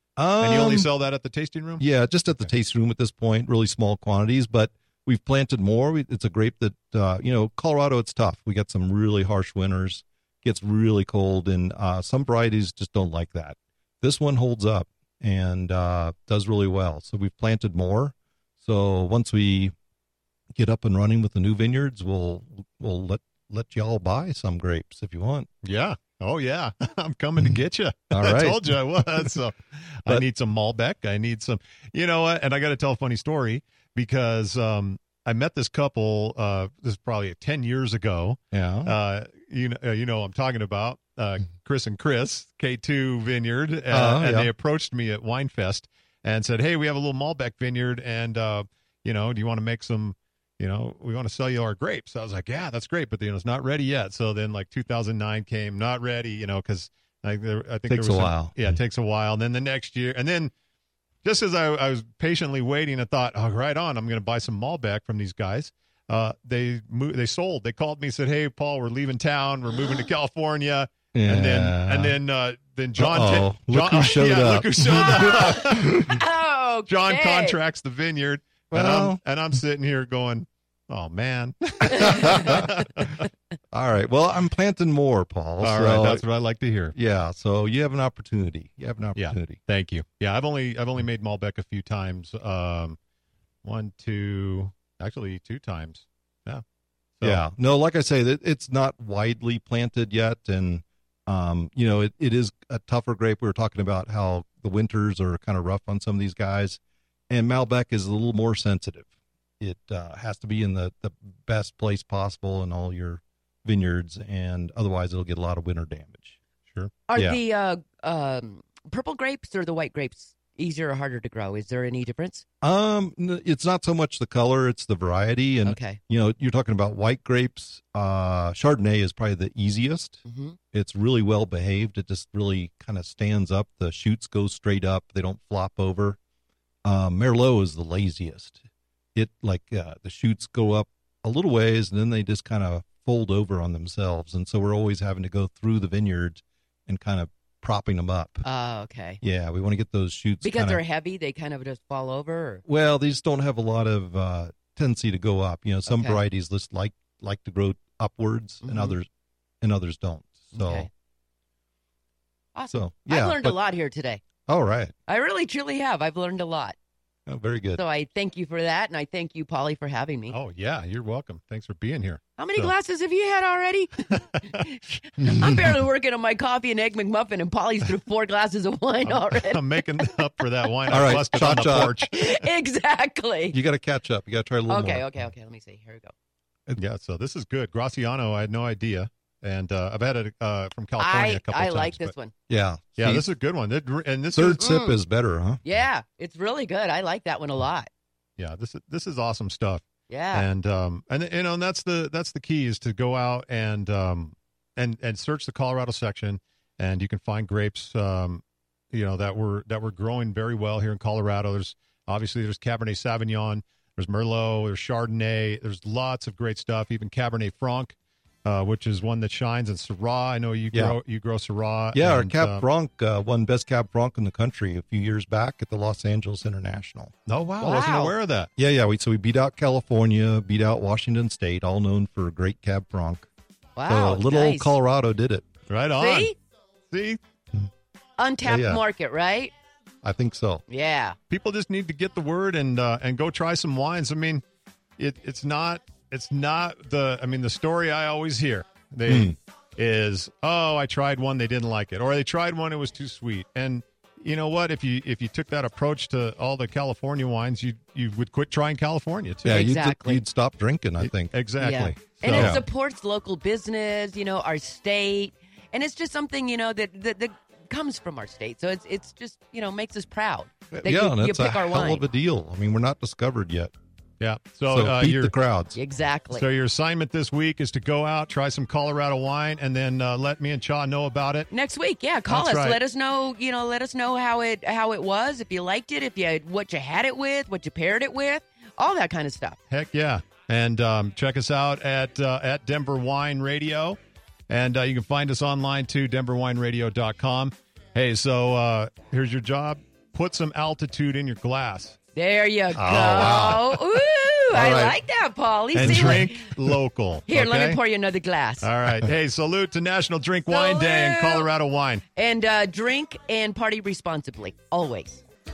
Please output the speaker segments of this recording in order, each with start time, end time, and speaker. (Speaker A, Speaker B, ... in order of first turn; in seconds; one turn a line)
Speaker A: 0.2-0.9
Speaker B: 0.4-1.8
Speaker A: 1.8-19.7
Speaker A: 20.6-25.5
Speaker B: 25.6-60.5
Speaker A: 28.1-28.7
Speaker A: 38.5-38.9
Speaker A: 43.9-44.5
Speaker A: 57.9-58.5
Speaker B: 61.2-76.2
Speaker A: 71.1-72.1
Speaker A: 73.0-75.8
Speaker C: 75.7-77.6
Speaker B: 76.8-83.3
Speaker A: 78.7-79.2
Speaker A: 81.9-82.8
Speaker A: 83.7-86.2
Speaker B: 85.6-86.9
Speaker A: 86.9-89.6
Speaker B: 89.2-93.0
Speaker B: 93.6-96.6
Speaker B: 97.2-97.4
Speaker A: 97.2-106.8
Speaker A: 107.3-109.1
Speaker A: 109.6-116.4
Speaker C: 117.1-122.4
Speaker A: 117.1-117.4
Speaker A: 122.6-130.2
Speaker C: 125.6-126.0
Speaker C: 130.2-130.6
Speaker A: 130.7-136.2
Speaker A: 136.8-138.6
Speaker A: 139.1-148.4
Speaker C: 148.4-149.2
Speaker A: 149.2-150.8
Speaker C: 150.4-152.6
Speaker A: 152.7-159.1
Speaker C: 155.9-156.2
Speaker C: 158.6-159.0
Speaker A: 159.6-160.9
Speaker C: 160.5-160.9
Speaker C: 162.5-164.2
Speaker A: 162.7-163.6
Speaker A: 164.4-164.9
Speaker C: 165.1-166.8
Speaker A: 167.3-167.8
Speaker C: 167.7-170.4
Speaker B: 170.3-172.7
Speaker C: 172.4-183.6
Speaker B: 179.1-182.5
Speaker A: 180.9-182.0
Speaker A: 183.5-185.1
Speaker C: 184.7-186.1
Speaker B: 186.8-192.1
Speaker C: 191.0-192.3
Speaker A: 192.5-193.3
Speaker B: 193.0-194.7
Speaker A: 194.3-195.6
Speaker C: 194.6-195.0
Speaker C: 195.6-197.9
Speaker B: 198.4-222.6
Speaker C: 200.1-200.5
Speaker A: 220.7-221.0
Speaker A: 221.9-227.1
Speaker B: 227.3-228.5
Speaker C: 227.6-228.1
Speaker A: 228.6-233.3
Speaker C: 233.8-234.8
Speaker A: 233.9-235.5
Speaker B: 235.7-236.3
Speaker C: 236.0-236.3
Speaker B: 236.9-237.2
Speaker C: 238.2-239.5
Speaker A: 238.4-238.8
Speaker A: 240.0-240.6
Speaker C: 240.7-241.2
Speaker B: 241.3-244.4
Speaker B: 245.0-259.6
Speaker A: 249.1-249.3
Speaker A: 259.4-262.6
Speaker C: 259.5-260.2
Speaker B: 261.0-262.6
Speaker C: 261.6-272.1
Speaker A: 270.7-273.7
Speaker B: 274.2-275.3
Speaker A: 274.7-275.8
Speaker C: 275.7-276.4
Speaker B: 276.3-281.5
Speaker C: 281.5-289.6
Speaker B: 282.3-282.8
Speaker B: 289.7-294.0
Speaker B: 294.5-301.9
Speaker C: 302.1-306.5
Speaker A: 302.8-303.8
Speaker B: 303.0-303.5
Speaker A: 304.5-305.0
Speaker A: 305.7-306.3
Speaker B: 305.7-307.8
Speaker C: 307.3-308.7
Speaker B: 308.6-312.0
Speaker C: 310.5-311.5
Speaker C: 312.1-315.2